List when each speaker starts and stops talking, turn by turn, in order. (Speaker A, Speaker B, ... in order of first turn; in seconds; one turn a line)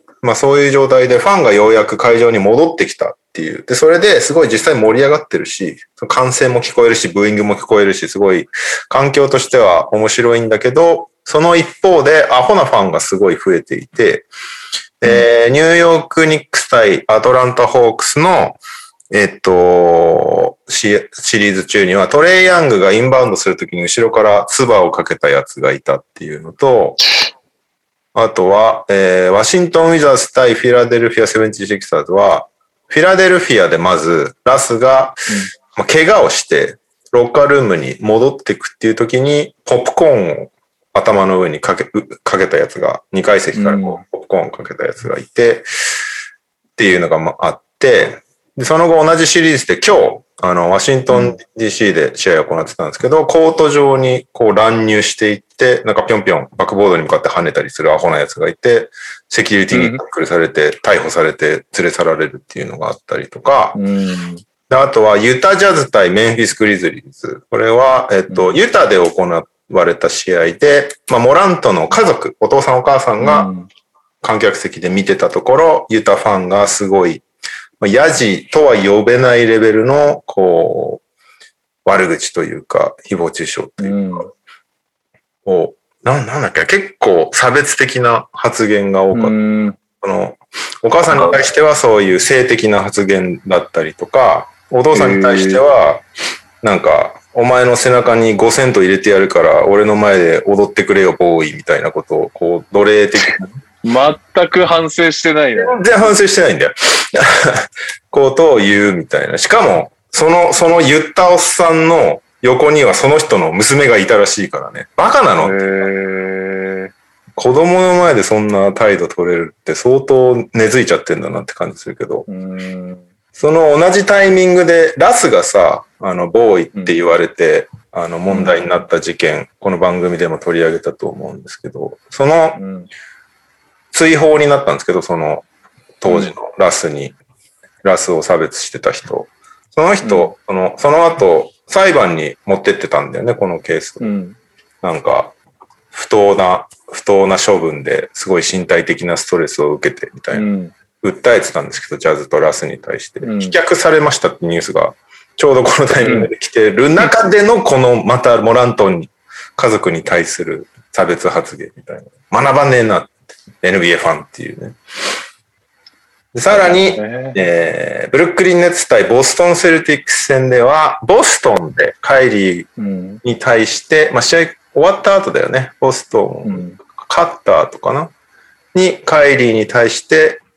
Speaker A: 0.2-14.3
Speaker A: 15.0-18.6
Speaker A: 19.1-27.0
Speaker B: 27.0-27.3
Speaker A: 28.1-45.7
Speaker B: 43.5-44.0
Speaker A: 46.8-63.8
Speaker B: 51.1-51.4
Speaker B: 59.7-60.0
Speaker B: 63.7-64.4
Speaker A: 64.7-73.5
Speaker B: 68.3-68.6
Speaker B: 73.2-73.7
Speaker A: 74.2-77.2
Speaker A: 77.8-81.0
Speaker A: 81.8-84.3
Speaker B: 83.8-84.3
Speaker A: 85.5-89.3
Speaker B: 89.1-89.8
Speaker A: 90.0-96.0
Speaker B: 94.9-95.6
Speaker A: 96.6-103.6
Speaker B: 103.8-105.8
Speaker A: 105.5-115.6
Speaker B: 115.4-116.9
Speaker A: 117.4-122.3
Speaker B: 122.3-123.0
Speaker A: 123.3-132.6
Speaker B: 128.3-128.6
Speaker B: 132.6-132.9
Speaker A: 133.9-135.4
Speaker A: 136.0-137.2
Speaker B: 136.1-136.3
Speaker A: 137.8-144.1
Speaker B: 140.0-140.3
Speaker B: 144.0-144.4
Speaker A: 144.8-145.3
Speaker A: 145.9-150.5
Speaker B: 150.3-150.7
Speaker A: 151.0-164.8
Speaker B: 153.2-153.6
Speaker B: 156.0-156.3
Speaker A: 166.3-172.7
Speaker B: 166.5-167.4
Speaker B: 172.8-173.2
Speaker A: 173.2-178.1
Speaker B: 176.4-176.8
Speaker A: 178.7-180.4